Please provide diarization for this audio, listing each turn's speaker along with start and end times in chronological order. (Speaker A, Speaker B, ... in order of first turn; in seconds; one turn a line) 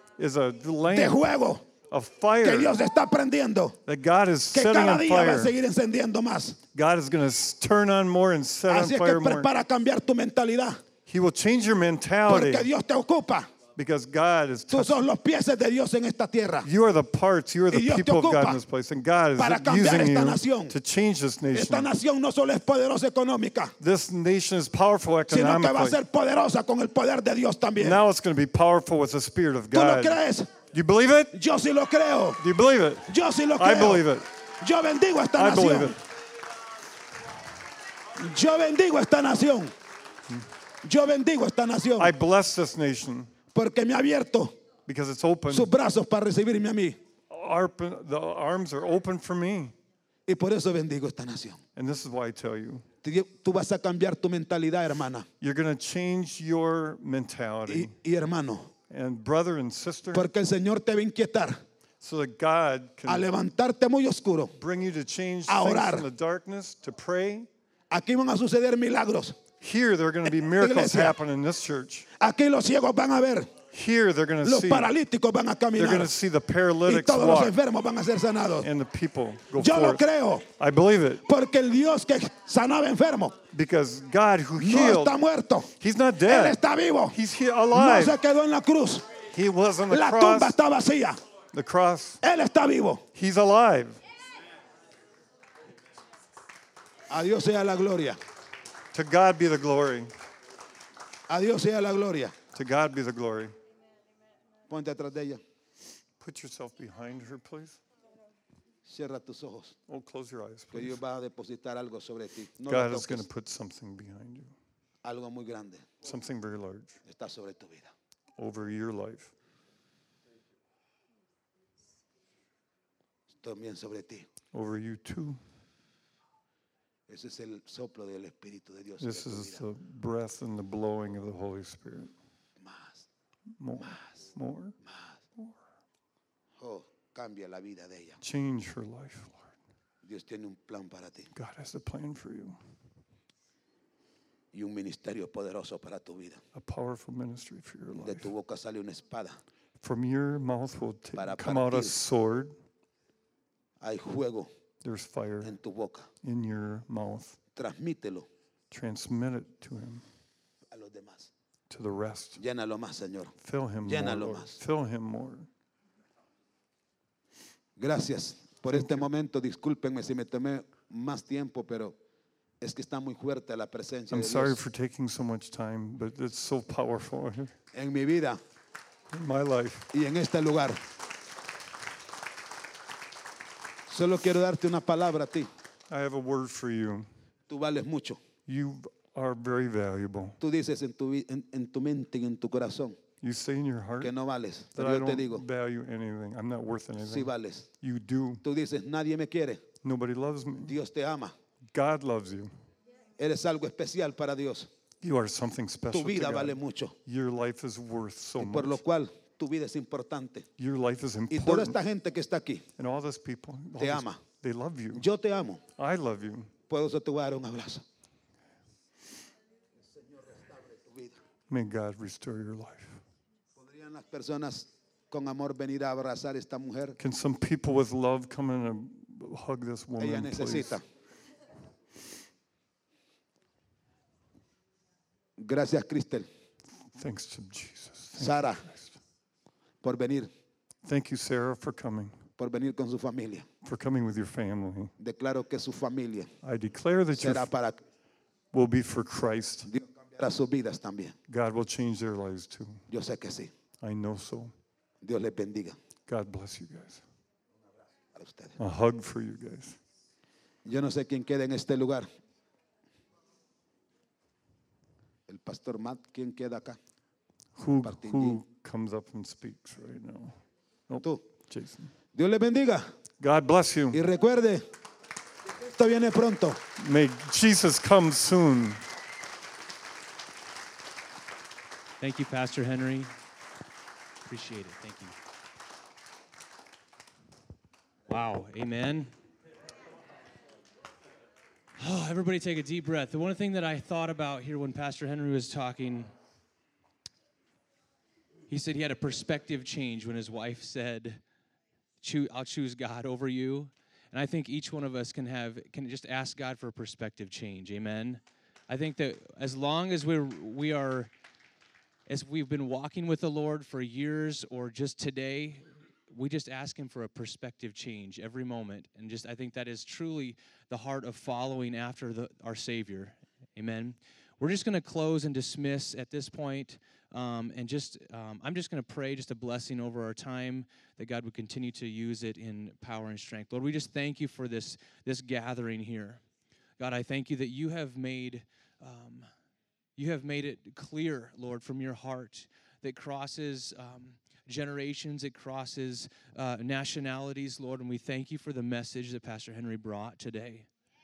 Speaker A: 0.2-1.3
Speaker B: 0.9-1.7
Speaker A: 1.9-2.8
Speaker B: 2.4-3.8
Speaker A: 3.9-5.6
Speaker B: 4.5-6.6
Speaker A: 6.7-9.5
Speaker B: 8.7-10.8
Speaker A: 11.1-12.7
Speaker B: 12.3-13.5
Speaker A: 13.8-15.1
Speaker B: 14.7-16.7
Speaker A: 16.6-21.9
Speaker B: 17.7-18.6
Speaker B: 19.4-20.7
Speaker B: 21.5-23.7
Speaker A: 23.8-26.0
Speaker B: 25.3-28.0
Speaker A: 27.8-30.2
Speaker B: 29.7-30.5
Speaker A: 30.7-31.3
Speaker B: 31.3-32.4
Speaker A: 32.4-34.3
Speaker B: 33.1-34.1
Speaker B: 34.6-36.0
Speaker A: 35.4-36.0
Speaker B: 38.2-39.7
Speaker B: 40.8-42.1
Speaker A: 42.0-43.3
Speaker B: 43.5-44.5
Speaker A: 44.9-45.7
Speaker B: 45.5-47.0
Speaker A: 47.3-49.7
Speaker B: 50.3-51.6
Speaker A: 51.8-52.9
Speaker B: 53.0-55.3
Speaker A: 55.4-57.9
Speaker B: 57.7-58.7
Speaker A: 58.9-60.3
Speaker B: 60.1-61.6
Speaker A: 62.0-63.3
Speaker B: 63.1-64.6
Speaker A: 64.6-67.5
Speaker B: 65.5-66.1
Speaker B: 67.9-69.4
Speaker A: 69.6-72.1
Speaker B: 70.3-71.2
Speaker B: 72.2-73.5
Speaker A: 73.7-74.9
Speaker B: 74.4-76.1
Speaker A: 75.8-77.6
Speaker B: 76.9-78.7
Speaker A: 78.6-81.2
Speaker B: 79.6-80.5
Speaker B: 81.2-83.4
Speaker A: 83.5-85.2
Speaker B: 84.6-85.7
Speaker A: 85.8-86.6
Speaker B: 86.3-87.2
Speaker A: 87.1-88.2
Speaker B: 87.7-89.1
Speaker A: 89.3-90.6
Speaker B: 89.9-91.2
Speaker A: 91.5-92.2
Speaker B: 92.2-93.0
Speaker A: 93.1-94.0
Speaker B: 97.1-98.2
Speaker A: 98.9-100.1
Speaker B: 101.3-102.3
Speaker A: 102.5-103.6
Speaker B: 104.7-105.4
Speaker A: 106.2-107.8
Speaker B: 108.9-109.8
Speaker A: 109.9-111.0
Speaker B: 110.7-113.3
Speaker A: 112.7-114.5
Speaker B: 115.0-115.9
Speaker A: 116.0-117.0
Speaker B: 117.0-117.9
Speaker A: 118.4-119.3
Speaker B: 123.4-124.3
Speaker A: 124.5-125.4
Speaker B: 127.1-129.6
Speaker A: 129.0-132.1
Speaker B: 132.6-133.1
Speaker A: 133.6-134.8
Speaker B: 133.8-134.1
Speaker B: 134.8-135.2
Speaker B: 136.6-138.2
Speaker A: 138.2-139.5
Speaker B: 140.0-141.3
Speaker A: 141.3-142.6
Speaker B: 144.5-146.4
Speaker A: 146.5-148.3
Speaker B: 148.0-149.4
Speaker A: 149.8-152.5
Speaker B: 151.2-152.0
Speaker B: 153.8-154.5
Speaker A: 154.8-155.6
Speaker B: 155.4-156.1
Speaker A: 156.2-157.4
Speaker B: 157.6-158.3
Speaker A: 158.7-160.1
Speaker B: 160.7-161.3
Speaker A: 161.7-162.4
Speaker B: 162.4-163.3
Speaker A: 163.4-165.5
Speaker B: 163.9-164.6
Speaker B: 167.8-171.9
Speaker A: 168.7-169.1
Speaker B: 172.6-174.6
Speaker A: 174.1-177.5
Speaker B: 177.7-178.4
Speaker A: 179.1-179.9
Speaker B: 179.9-180.8
Speaker B: 183.9-185.5
Speaker A: 185.9-187.1
Speaker B: 187.5-188.2
Speaker A: 188.5-190.4
Speaker B: 190.4-193.0
Speaker A: 193.2-194.1
Speaker B: 194.0-195.4
Speaker A: 194.7-198.4
Speaker B: 197.0-197.7
Speaker B: 198.4-199.7
Speaker A: 199.8-200.8
Speaker B: 200.6-201.3
Speaker A: 201.7-202.5
Speaker B: 203.2-204.7
Speaker A: 205.0-208.8
Speaker B: 205.9-206.9
Speaker B: 208.4-210.5
Speaker A: 210.6-211.8
Speaker B: 211.3-212.7
Speaker A: 212.8-215.1
Speaker B: 213.8-214.2
Speaker B: 214.9-215.6
Speaker A: 215.8-216.5
Speaker B: 216.7-217.8
Speaker B: 219.9-221.2
Speaker A: 221.5-223.0
Speaker B: 223.6-227.0
Speaker A: 227.0-230.8
Speaker B: 230.0-230.8
Speaker B: 235.4-236.3
Speaker A: 236.9-239.0
Speaker B: 238.2-238.6
Speaker B: 239.8-240.3
Speaker A: 240.8-242.2
Speaker B: 242.4-243.5
Speaker A: 243.6-244.9
Speaker B: 245.0-246.3
Speaker A: 246.4-247.5
Speaker B: 247.1-247.8
Speaker A: 248.5-249.7
Speaker B: 249.7-251.2
Speaker A: 251.3-252.8
Speaker B: 252.9-253.5
Speaker A: 253.8-254.5
Speaker B: 255.0-255.8
Speaker A: 256.1-257.0
Speaker B: 258.2-258.6
Speaker A: 258.6-259.8
Speaker B: 260.7-262.1
Speaker B: 265.3-266.8
Speaker A: 267.6-270.4
Speaker B: 267.8-268.4
Speaker A: 270.9-271.9
Speaker B: 272.1-272.9
Speaker A: 273.2-274.0
Speaker B: 273.9-274.6
Speaker B: 275.6-276.6
Speaker A: 276.8-278.8
Speaker C: 282.0-283.1
Speaker C: 284.2-285.1
Speaker C: 288.1-289.1
Speaker C: 291.8-296.1
Speaker C: 298.5-301.2
Speaker C: 302.0-311.1
Speaker C: 312.1-336.2
Speaker C: 336.8-339.3
Speaker C: 339.9-350.7